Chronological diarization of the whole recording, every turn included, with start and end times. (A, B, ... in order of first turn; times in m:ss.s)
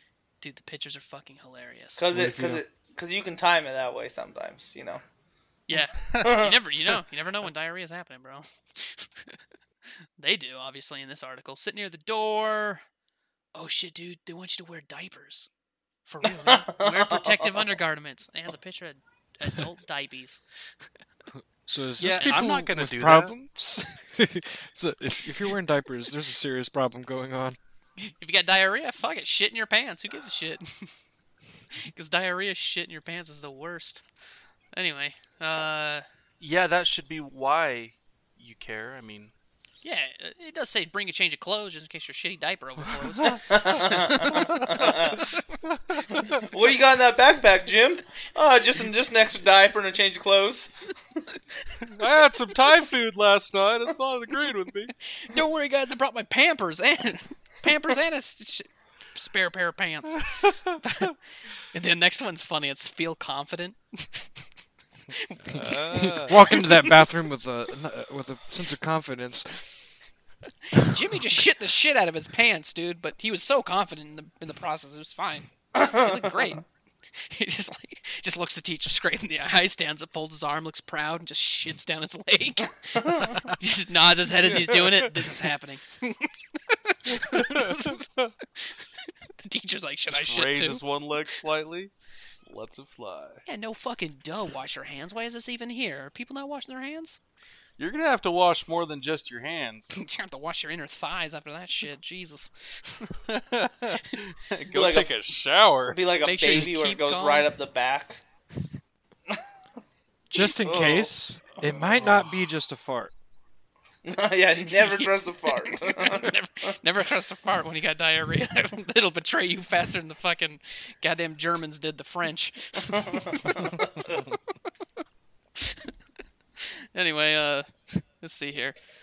0:00.4-0:02.0 A
0:02.0-0:05.0 B
0:02.1-0:02.6 C
0:05.7-0:09.4 A
0:06.2-0:06.6 B
0:10.2-0:12.8 A
0:13.5-0:15.5 A
0:16.1-0:20.4 A
0:16.2-0:17.7 B
0:21.4-0:27.6 C
0:22.0-0:23.3 D
0:22.1-0:22.5 A
0:28.0-0:31.0 A
0:31.7-0:34.0 A
0:34.7-0:36.0 A
0:36.4-0:39.3 D
0:39.8-0:45.6 A
0:43.2-0:43.4 D
0:43.4-0:45.3 B
0:44.3-0:46.4 D
0:46.4-0:50.7 B
0:51.4-0:51.8 A
0:51.8-0:54.9 D
0:55.1-1:01.1 A
1:00.2-1:00.7 D
1:01.7-1:04.4 A
1:05.1-1:07.0 A
1:05.5-1:06.5 D
1:05.7-1:09.9 C
1:10.6-1:30.8 A
1:15.8-1:16.4 B
1:23.0-1:23.4 B
1:24.4-1:25.4 D
1:27.1-1:28.3 D
1:30.1-1:31.9 D
1:32.5-1:33.4 D
1:33.5-1:37.2 A
1:37.8-1:40.0 D
1:39.9-1:43.2 A
1:43.3-1:46.0 D
1:44.7-1:45.1 B
1:45.9-1:48.2 B
1:46.2-1:47.5 A
1:50.3-1:53.1 C
1:50.6-1:51.1 B
1:50.7-1:51.0 D
1:51.5-1:52.3 D
1:54.0-1:56.8 B
1:54.7-2:03.9 A
2:03.0-2:04.2 B
2:05.6-2:05.9 A
2:06.6-2:08.8 A